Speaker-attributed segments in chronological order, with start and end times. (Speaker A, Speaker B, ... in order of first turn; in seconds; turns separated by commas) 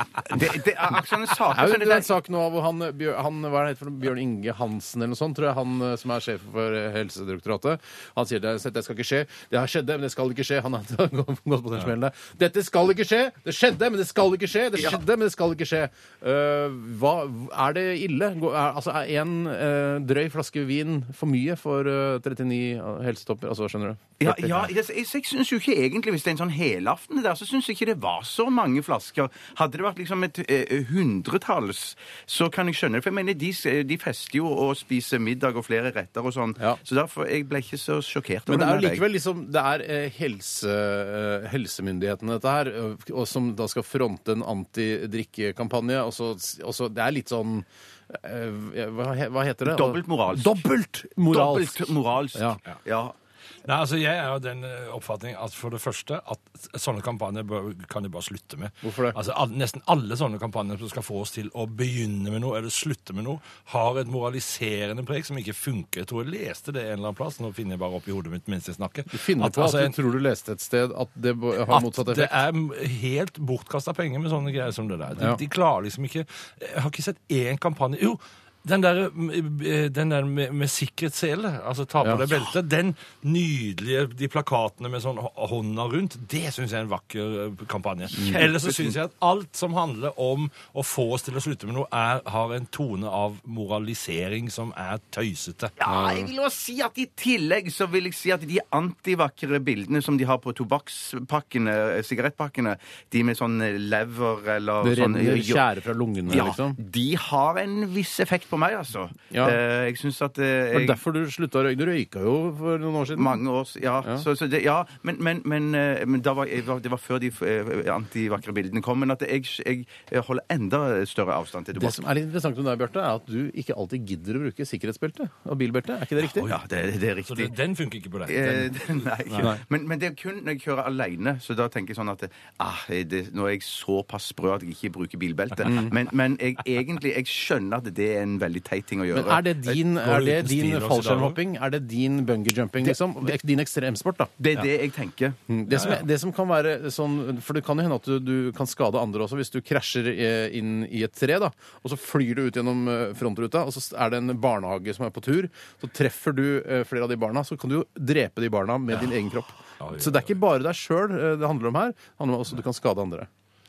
Speaker A: 0.2-2.1, Speaker B: 1.5-24.7, Speaker A: 24.2-39.0, Speaker B: 38.5-52.6, Speaker A: 49.6-50.6, Speaker A: 51.2-53.1, Speaker C: 53.6-69.9, Speaker B: 58.8-59.2, Speaker B: 69.1-72.3, Speaker C: 71.7-95.7, Speaker A: 88.2-89.0, Speaker A: 95.8-105.7, Speaker B: 95.8-96.3, Speaker B: 104.8-106.8, Speaker A: 106.3-111.0, Speaker B: 109.3-109.6, Speaker B: 110.7-113.4, Speaker A: 113.1-122.0, Speaker B: 121.8-126.5, Speaker C: 126.2-126.6, Speaker A: 126.4-127.5, Speaker C: 127.2-129.5, Speaker A: 128.2-139.4, Speaker B: 135.7-135.9, Speaker B: 139.1-144.6, Speaker C: 139.6-141.4, Speaker A: 144.4-145.4, Speaker B: 145.5-163.3, Speaker C: 145.7-146.0, Speaker C: 159.8-160.3